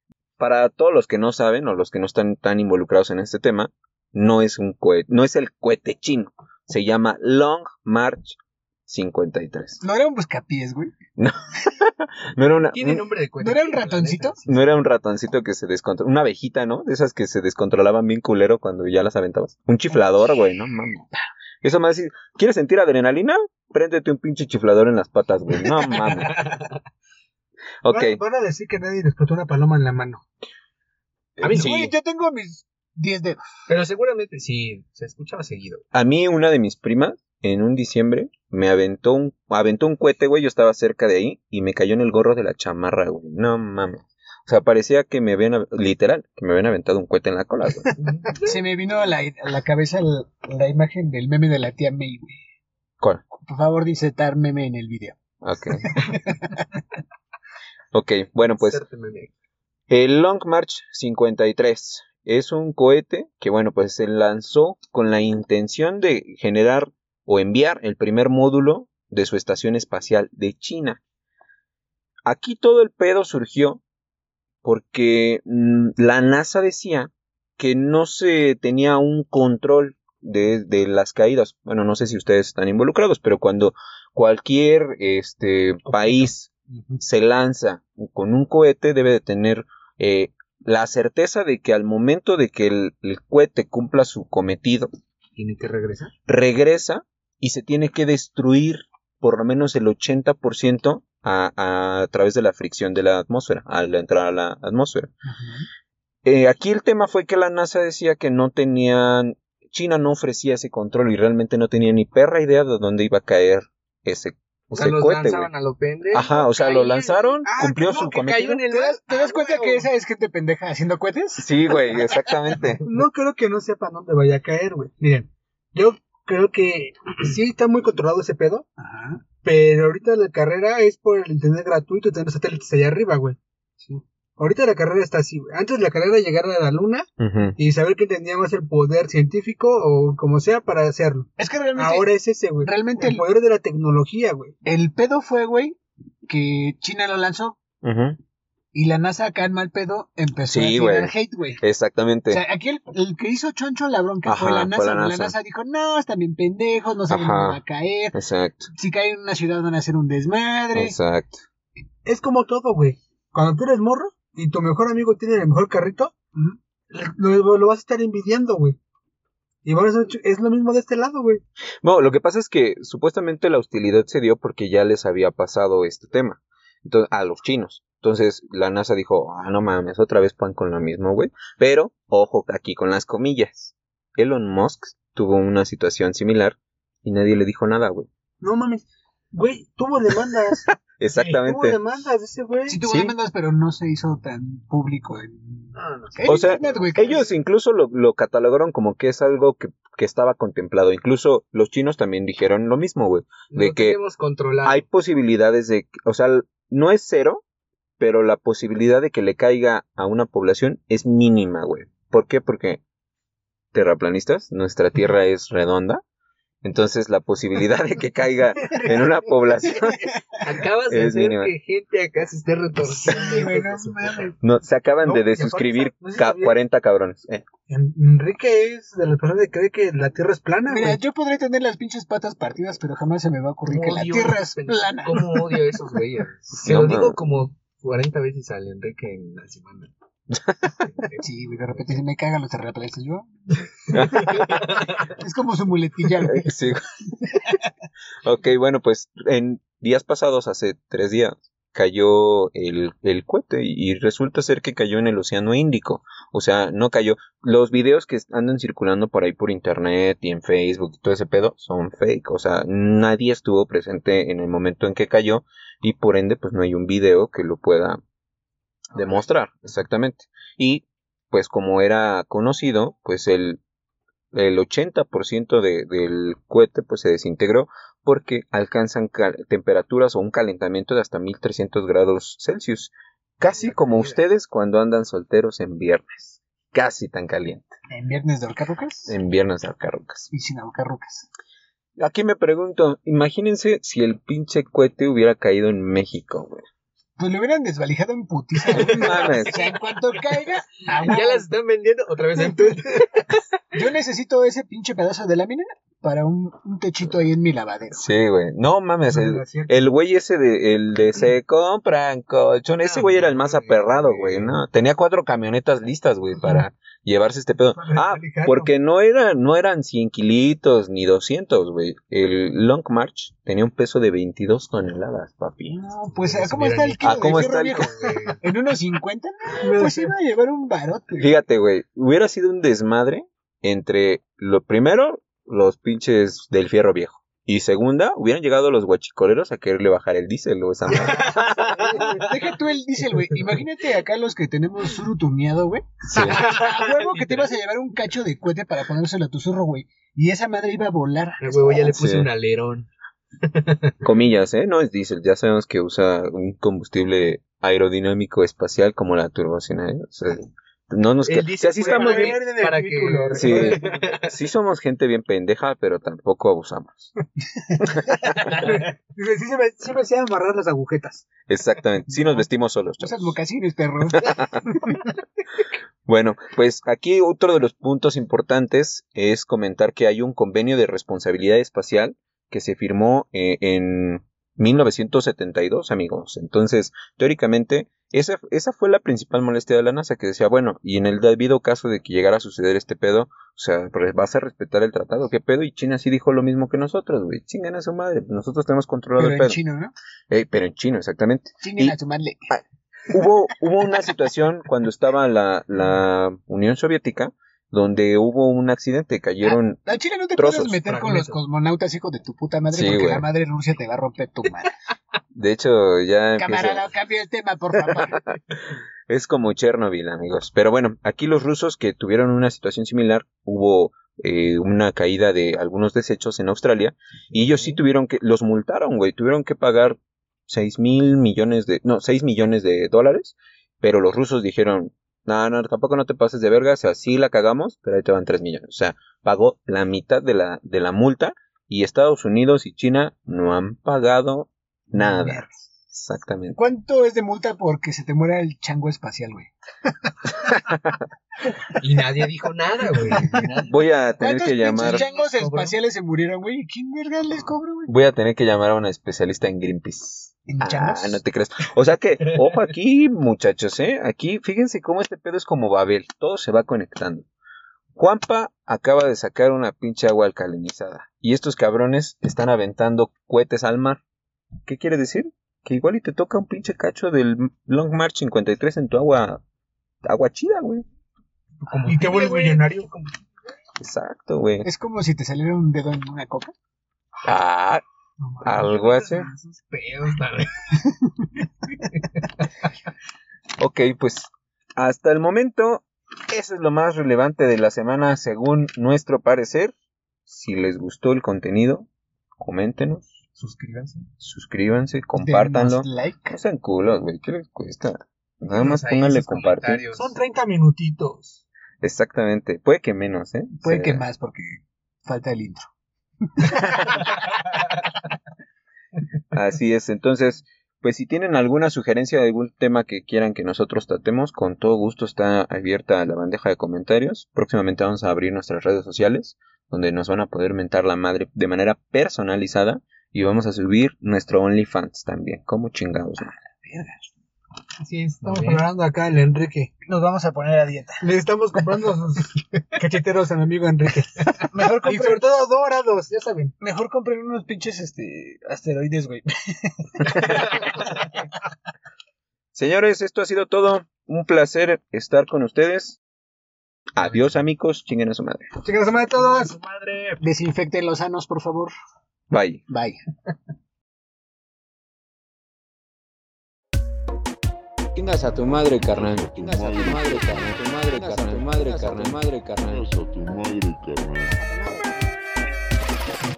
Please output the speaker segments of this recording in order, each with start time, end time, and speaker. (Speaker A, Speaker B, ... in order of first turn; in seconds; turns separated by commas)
Speaker A: 0.4-9.8, Speaker B: 9.8-11.0, Speaker A: 11.2-13.0, Speaker C: 12.7-14.6, Speaker B: 13.4-14.4, Speaker A: 14.4-21.1, Speaker A: 21.6-26.4, Speaker C: 26.3-26.7, Speaker A: 27.8-28.2, Speaker D: 27.9-30.2, Speaker A: 31.4-31.9, Speaker C: 31.4-31.8, Speaker B: 31.5-33.4, Speaker C: 33.7-35.8, Speaker A: 35.9-47.9, Speaker C: 48.0-48.5, Speaker B: 48.3-52.4, Speaker B: 53.4-55.2, Speaker A: 55.4-56.1, Speaker B: 55.8-56.7, Speaker A: 57.9-58.8, Speaker C: 58.5-59.3, Speaker A: 59.9-71.0, Speaker A: 72.2-73.8, Speaker A: 74.6-94.9, Speaker C: 85.9-86.2, Speaker C: 86.7-87.0, Speaker C: 95.3-96.1, Speaker A: 96.3-105.1, Speaker B: 105.3-105.7, Speaker A: 106.2-115.5, Speaker C: 114.7-116.3, Speaker A: 116.1-118.7, Speaker D: 116.2-119.8, Speaker B: 118.7-122.2, Speaker A: 121.4-122.8, Speaker D: 122.8-128.7, Speaker B: 128.8-129.2, Speaker D: 129.4-133.4, Speaker D: 134.4-144.5, Speaker A: 137.2-137.6, Speaker B: 141.4-143.3, Speaker B: 144.6-147.6, Speaker A: 147.8-148.2, Speaker B: 148.7-151.6, Speaker A: 150.5-152.4, Speaker B: 152.3-158.2, Speaker A: 154.2-155.3, Speaker A: 157.1-157.6, Speaker A: 158.1-158.7, Speaker B: 158.7-161.0, Speaker A: 160.7-161.4, Speaker D: 162.0-166.2, Speaker D: 166.9-168.8, Speaker D: 169.6-171.4, Speaker A: 171.8-188.1, Speaker D: 188.4-192.8, Speaker A: 191.0-191.8, Speaker B: 192.7-197.2, Speaker A: 192.8-193.1, Speaker C: 195.7-197.3, Speaker A: 196.2-204.0, Speaker C: 203.5-204.8, Speaker A: 204.6-207.4, Speaker A: 208.0-212.8, Speaker A: 213.7-216.0, Speaker A: 216.6-220.1, Speaker B: 219.7-220.2, Speaker C: 220.4-224.3, Speaker A: 220.8-221.5, Speaker B: 222.8-224.3, Speaker A: 224.4-227.4, Speaker D: 225.0-226.6, Speaker D: 227.7-231.0, Speaker B: 230.7-235.8, Speaker C: 233.7-239.9, Speaker A: 236.6-237.2, Speaker A: 240.3-240.7, Speaker C: 240.8-241.2, Speaker B: 241.2-243.3, Speaker A: 243.9-244.7, Speaker B: 243.9-244.5, Speaker C: 244.0-245.1, Speaker B: 245.1-247.7, Speaker A: 246.3-246.8, Speaker A: 248.2-268.0, Speaker C: 268.9-269.3, Speaker A: 268.9-273.6, Speaker A: 274.3-287.7, Speaker C: 283.5-284.2, Speaker B: 287.9-289.1, Speaker A: 289.1-290.3, Speaker B: 290.3-291.3, Speaker A: 292.0-296.6, Speaker B: 297.2-301.5, Speaker A: 298.7-299.7, Speaker C: 300.9-303.4, Speaker B: 302.4-303.2, Speaker B: 303.7-308.0, Speaker A: 307.9-325.8, Speaker D: 309.1-309.9, Speaker C: 312.8-314.6, Speaker D: 317.8-318.7, Speaker B: 325.7-331.3, Speaker C: 326.2-328.4, Speaker A: 327.0-327.9, Speaker D: 329.6-330.1, Speaker A: 331.2-341.5, Speaker C: 340.9-342.4, Speaker B: 341.7-352.0, Speaker D: 341.8-342.2, Speaker C: 343.2-343.4, Speaker A: 346.1-346.4, Speaker C: 346.2-347.5, Speaker C: 351.4-352.9, Speaker A: 351.9-352.3, Speaker C: 353.4-353.9, Speaker A: 354.0-362.4, Speaker C: 361.3-364.3, Speaker D: 361.5-364.2, Speaker A: 363.4-367.1, Speaker B: 368.1-368.7, Speaker D: 368.3-371.3, Speaker A: 371.5-373.3, Speaker B: 373.0-375.0, Speaker A: 374.2-374.6, Speaker A: 376.1-399.6, Speaker B: 399.2-399.9, Speaker A: 400.3-401.9, Speaker B: 401.6-402.4, Speaker A: 402.5-409.8, Speaker B: 409.4-414.7, Speaker A: 410.3-410.8, Speaker C: 410.8-411.4, Speaker A: 412.7-413.2, Speaker A: 415.3-416.9, Speaker B: 416.4-418.2, Speaker A: 419.1-446.6, Speaker C: 427.4-427.8, Speaker B: 444.9-445.5, Speaker B: 446.6-449.5, Speaker B: 450.2-450.5, Speaker A: 450.6-450.9, Speaker C: 451.7-453.8, Speaker B: 453.1-453.6, Speaker A: 453.7-455.0, Speaker B: 454.2-457.9, Speaker C: 454.7-455.8, Speaker A: 457.9-467.2, Speaker B: 460.5-461.2, Speaker A: 467.9-474.0, Speaker A: 474.6-479.4, Speaker A: 480.0-480.8, Speaker C: 481.7-483.1, Speaker D: 481.8-482.9, Speaker A: 483.8-484.7, Speaker B: 484.6-486.5, Speaker A: 487.2-487.8, Speaker A: 488.4-489.3, Speaker C: 488.4-490.5, Speaker B: 490.8-491.3, Speaker A: 493.6-499.7, Speaker A: 500.3-503.2, Speaker C: 503.4-504.0, Speaker D: 503.4-503.9, Speaker A: 504.2-509.8, Speaker B: 505.1-506.4, Speaker C: 508.5-510.1, Speaker D: 509.9-511.4, Speaker A: 511.8-514.0, Speaker B: 513.6-515.6, Speaker B: 516.2-517.1, Speaker A: 519.3-536.3, Speaker B: 536.6-537.0, Speaker D: 537.8-539.7, Speaker C: 538.2-538.6, Speaker B: 539.8-541.1, Speaker D: 541.0-546.5, Speaker B: 544.5-545.2, Speaker B: 546.6-550.9, Speaker A: 552.5-556.0, Speaker A: 556.9-558.5, Speaker D: 558.6-559.5, Speaker C: 559.1-560.2, Speaker B: 560.2-561.7, Speaker A: 562.3-562.6, Speaker B: 562.7-563.0, Speaker A: 567.9-572.9, Speaker E: 568.8-570.7, Speaker E: 572.6-574.5, Speaker B: 574.5-575.1